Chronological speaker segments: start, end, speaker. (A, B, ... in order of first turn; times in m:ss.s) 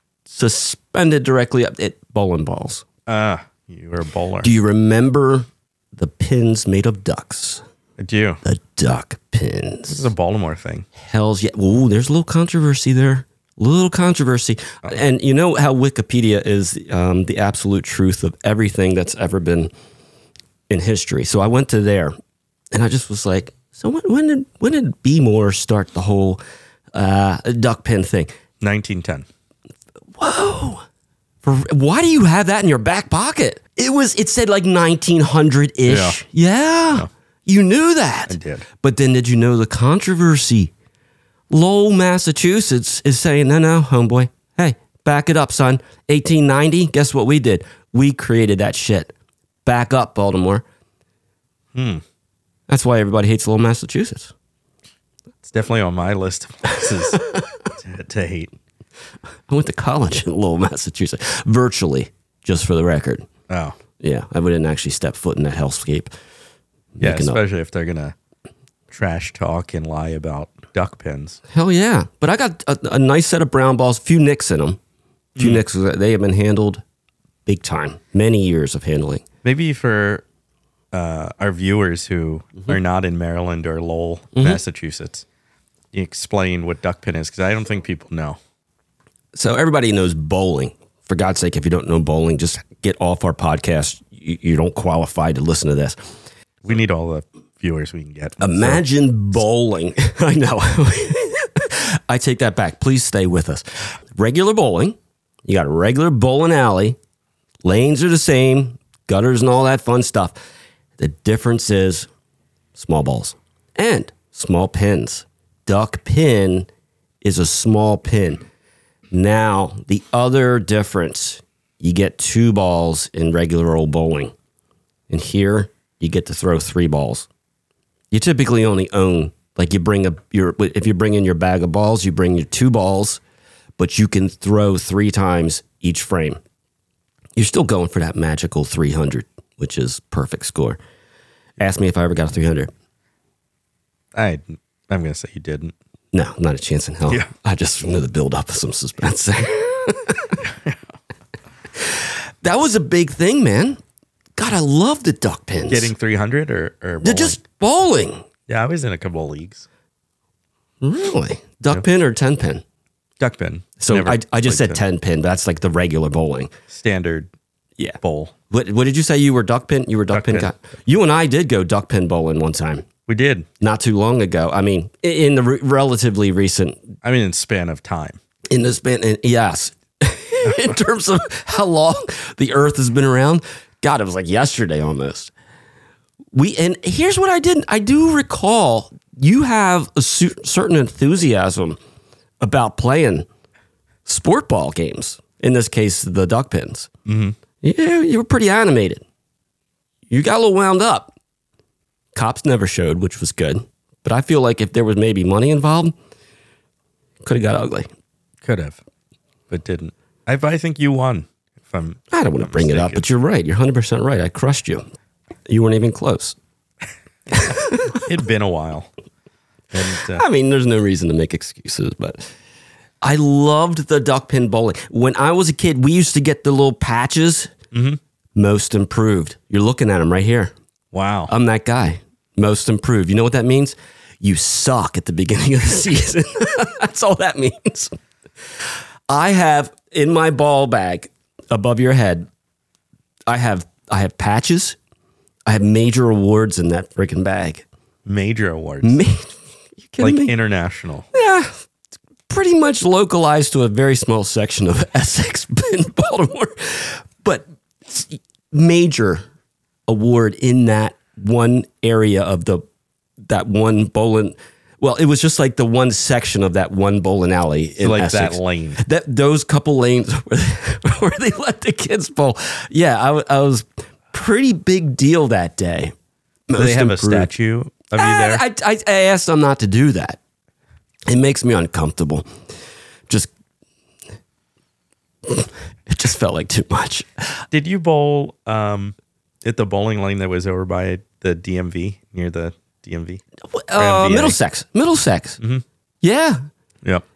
0:00.3-0:02.8 A
0:03.1-0:04.5 B
0:04.4-0:07.6 A
0:08.0-0:08.4 B
0:08.4-0:10.1 A
0:09.9-0:10.9 B
0:11.0-0:19.7 A
0:20.7-0:22.2 A
0:22.7-0:26.4 A
0:26.9-0:28.3 A
0:28.6-0:29.3 B
0:30.2-0:30.8 A
0:31.4-0:40.7 A
0:35.8-0:36.2 B
0:38.3-0:38.7 B
0:41.5-0:49.1 A
0:49.6-0:50.6 A
0:51.7-0:52.0 B
0:52.7-0:54.3 A
0:55.4-0:57.2 B
0:57.7-0:58.5 B
0:59.5-1:03.3 A
1:03.5-1:03.8 B
1:04.0-1:06.1 A
1:07.0-1:07.4 A
1:07.0-1:08.2 B
1:08.9-1:11.4 B
1:11.5-1:14.8 A
1:15.4-1:15.6 B
1:15.4-1:16.8 A
1:17.5-1:19.2 A
1:19.4-1:20.2 B
1:20.9-1:25.2 B
1:24.4-1:24.6 A
1:25.9-1:28.4 B
1:29.3-1:36.0 A
1:36.6-1:38.8 B
1:38.4-1:47.0 A
1:47.6-1:50.4 A
1:51.0-1:52.1 A
1:52.8-1:56.7 A
1:57.2-1:58.4 A
1:59.1-2:04.3 A
2:05.1-2:07.3 A
2:08.1-2:13.2 A
2:13.8-2:16.4 A
2:17.4-2:20.8 A
2:21.6-2:22.7 A
2:24.1-2:25.7 B
2:26.1-2:30.4 A
2:30.4-2:30.8 B
2:31.8-2:33.8 A
2:34.4-2:35.9 A
2:35.7-2:37.4 B
2:37.0-2:38.2 A
2:38.5-2:39.7 B
2:40.8-2:42.6 A
2:43.2-2:44.8 B
2:43.8-2:46.5 A
2:46.7-2:47.3 B
2:47.8-2:52.9 A
2:48.0-2:48.4 B
2:50.1-2:50.5 B
2:53.1-2:53.5 B
2:53.6-2:56.9 A
2:57.0-2:58.2 B
2:58.5-3:05.3 A
3:06.3-3:11.8 A
3:12.4-3:13.3 A
3:14.1-3:16.9 A
3:17.1-3:17.4 B
3:17.6-3:19.0 A
3:20.1-3:21.1 A
3:22.2-3:26.0 A
3:27.2-3:27.9 A
3:28.4-3:28.8 B
3:29.5-3:33.0 B
3:32.1-3:34.8 A
3:35.5-3:36.4 A
3:37.3-3:38.0 A
3:37.9-3:38.9 B
3:39.7-3:40.2 B
3:40.0-3:42.3 A
3:43.0-3:47.5 A
3:47.7-3:48.0 B
3:48.4-3:50.5 A
3:50.9-3:51.3 B
3:51.3-3:58.0 A
3:59.1-4:02.3 A
4:03.3-4:04.8 A
4:05.5-4:07.7 A
4:08.1-4:09.0 B
4:08.8-4:10.4 A
4:10.0-4:11.1 B
4:11.1-4:11.7 A
4:12.3-4:19.2 A
4:19.9-4:22.6 A
4:23.2-4:36.0 A
4:27.8-4:28.8 B
4:36.5-4:37.3 A
4:36.6-4:38.4 B
4:38.0-4:40.2 A
4:41.1-4:42.3 A
4:45.3-4:47.4 A
4:47.5-4:53.2 B
4:53.4-4:55.4 A
4:53.8-4:54.4 B
4:56.0-4:56.4 A